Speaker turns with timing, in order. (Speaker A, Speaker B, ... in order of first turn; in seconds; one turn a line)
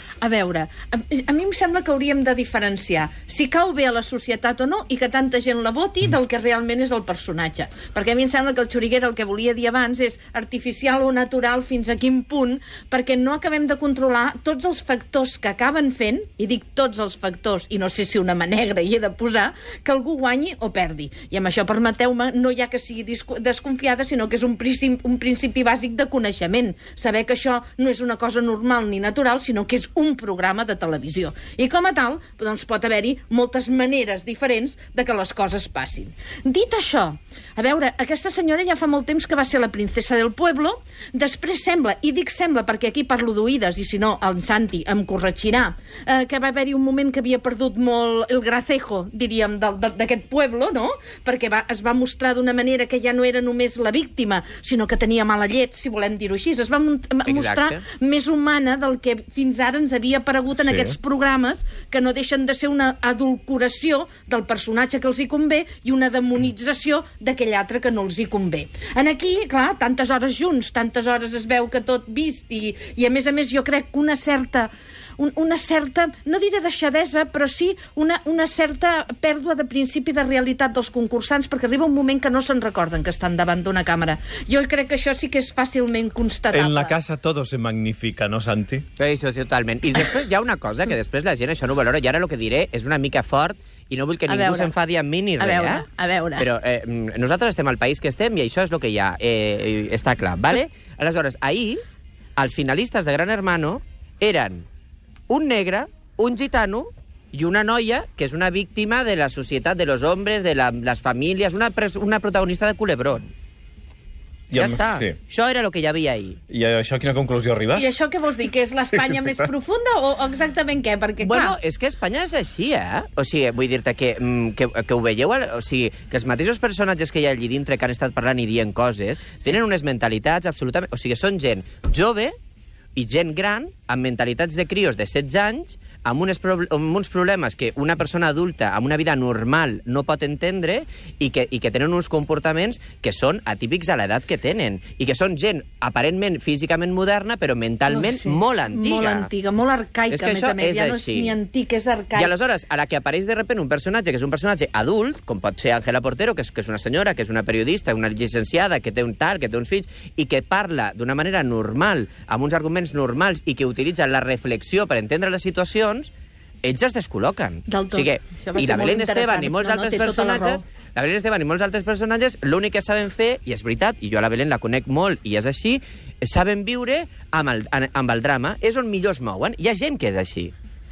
Speaker A: 0.2-86.9
Speaker B: 57.2-57.8
Speaker C: 60.6-60.9
Speaker C: 86.5-88.8
Speaker B: 89.0-95.8
Speaker A: 94.3-94.7
Speaker A: 95.4-96.5
Speaker B: 96.4-101.8
Speaker B: 102.4-104.6
Speaker B: 105.3-113.3
Speaker C: 114.5-115.2
Speaker B: 114.5-116.4
Speaker C: 116.5-117.9
Speaker A: 117.8-121.6
Speaker B: 121.2-132.3
Speaker B: 132.9-149.3
Speaker A: 147.9-152.3
Speaker B: 150.1-151.4
Speaker B: 152.2-166.1
Speaker B: 166.6-180.5
Speaker A: 167.7-170.6